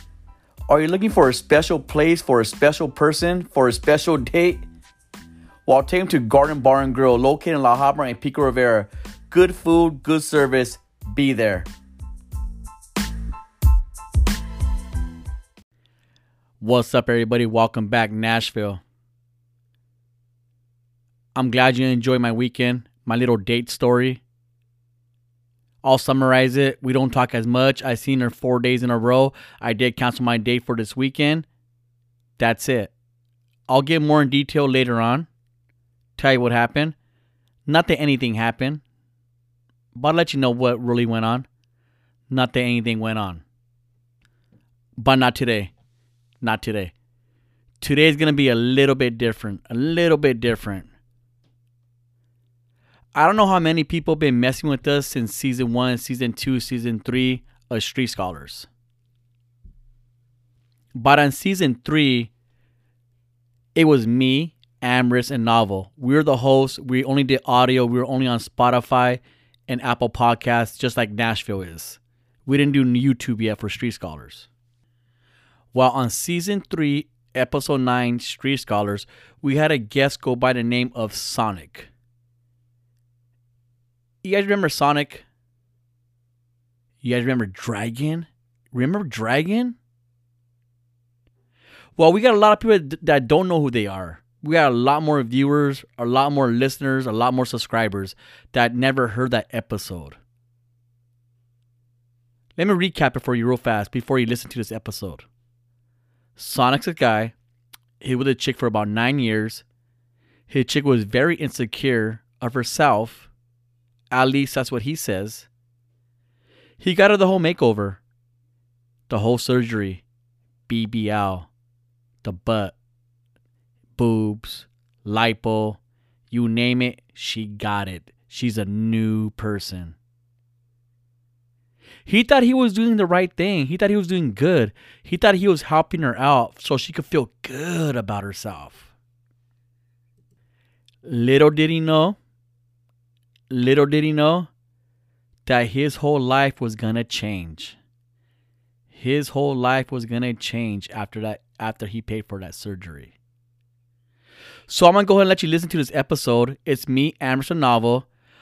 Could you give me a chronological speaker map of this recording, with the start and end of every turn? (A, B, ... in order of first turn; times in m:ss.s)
0:00.7-0:04.6 A
0:05.6-0:11.7 A
0:16.6-0:18.8 A
0:21.3-0:24.2 A
0:25.8-0:31.4 A
0:32.4-0:32.9 A
0:33.7-0:35.3 A
0:36.2-0:36.9 A
0:37.7-0:38.8 A
0:39.9-0:41.5 A
0:42.3-0:43.4 A
0:45.0-0:45.7 A
0:46.4-0:46.9 A
0:47.8-0:50.9 A
0:53.1-0:58.7 A
1:00.9-1:02.3 A
1:03.7-1:14.5 A
1:15.7-1:21.9 A
1:24.2-1:25.2 A
1:27.0-1:29.8 A
1:32.0-1:40.2 A
1:42.6-1:45.2 A
1:46.4-1:47.3 A
1:48.0-1:49.6 A
1:50.5-1:53.3 A
1:54.1-1:55.5 A
1:56.8-1:58.0 A
1:59.1-2:00.0 A
2:00.7-2:01.5 A
2:02.2-2:02.7 A
2:04.0-2:05.8 A
2:06.3-2:10.0 A
2:12.0-2:18.9 A
2:21.0-2:22.2 A
2:23.5-2:24.5 A
2:25.4-2:27.8 A
2:28.9-2:33.1 A
2:34.7-2:38.0 A